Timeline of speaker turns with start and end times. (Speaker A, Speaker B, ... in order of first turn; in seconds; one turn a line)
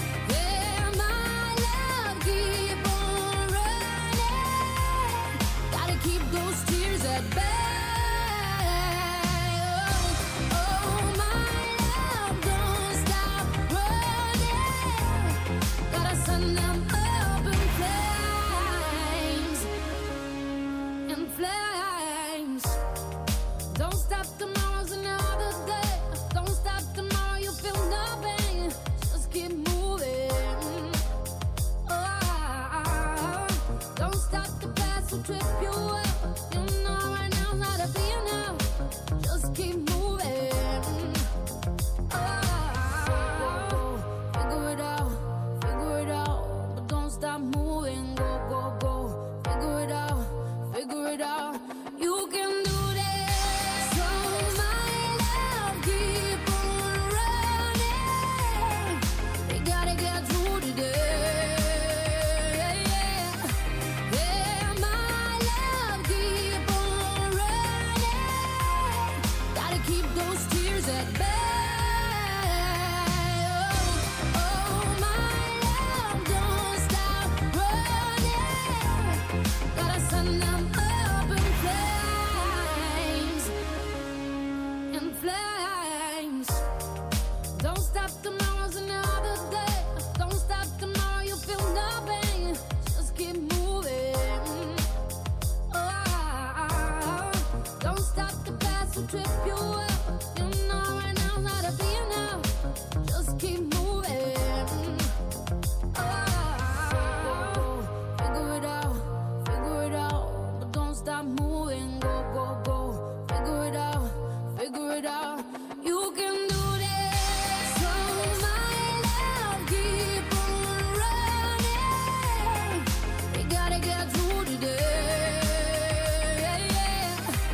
Speaker A: 0.2-19.7
Speaker A: 21.1-22.8
Speaker A: 23.7-31.0
Speaker A: 31.9-38.6
Speaker A: 39.2-41.2
Speaker A: 42.1-63.5
Speaker A: 64.1-83.5
Speaker A: 84.9-86.6
Speaker A: 87.5-94.8
Speaker A: 95.7-102.5
Speaker A: 103.0-105.1
Speaker A: 105.9-127.2